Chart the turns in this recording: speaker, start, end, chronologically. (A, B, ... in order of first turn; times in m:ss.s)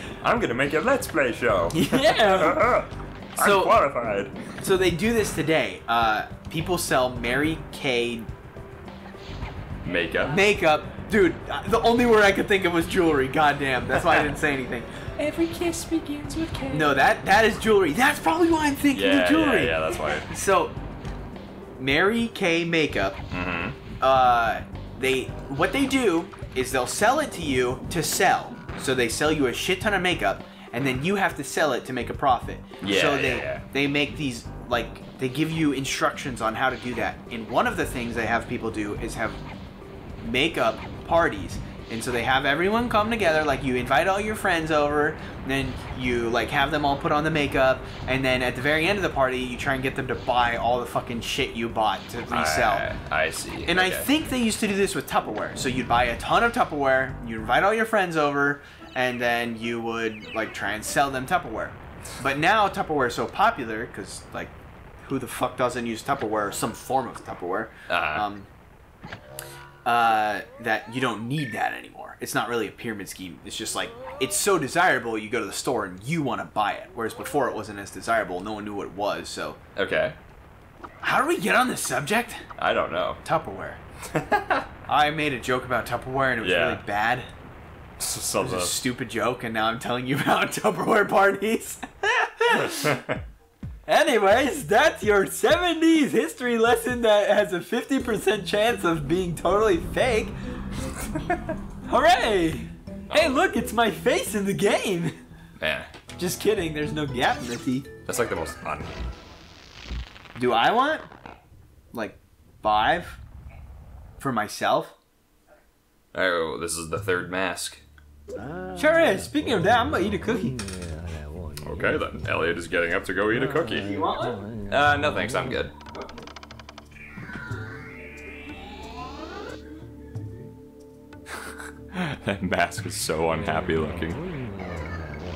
0:00.2-0:04.3 A
0:01.7-0:02.6 B
0:03.4-0:03.8 B
0:04.6-0:08.3 B
0:09.8-0:10.4 A
0:10.3-0:14.9 B
0:14.0-0:14.4 A
0:15.2-0:17.0 A
0:16.7-0:20.8 B
0:18.9-0:20.3 A
0:21.8-0:23.2 B
0:23.3-0:23.8 A
0:24.0-0:39.4 B
0:32.8-0:33.6 A
0:40.2-0:52.9 B
0:52.3-0:54.1 A
0:53.7-1:08.5 B
1:07.9-1:08.2 A
1:09.8-1:19.6 B
1:19.8-1:20.2 A
1:21.0-1:22.4 B
1:22.6-1:23.2 A
1:23.2-1:23.8 B
1:24.1-1:24.7 A
1:24.9-1:27.3 B
1:26.4-1:26.8 A
1:28.0-1:28.8 A
1:28.4-1:33.0 B
1:32.5-1:33.2 A
1:33.9-1:40.4 B
1:41.9-1:45.2 B
1:43.1-1:43.4 A
1:45.6-1:45.9 A
1:46.2-1:47.9 B
1:48.1-1:49.0 A
1:50.4-1:51.1 B
1:51.9-1:53.2 B
1:54.2-1:55.0 B
1:56.1-1:57.8 A
1:58.8-2:00.5 B
2:01.6-2:04.1 A
2:03.9-2:04.4 B
2:04.7-2:05.7 A
2:11.9-2:14.2 A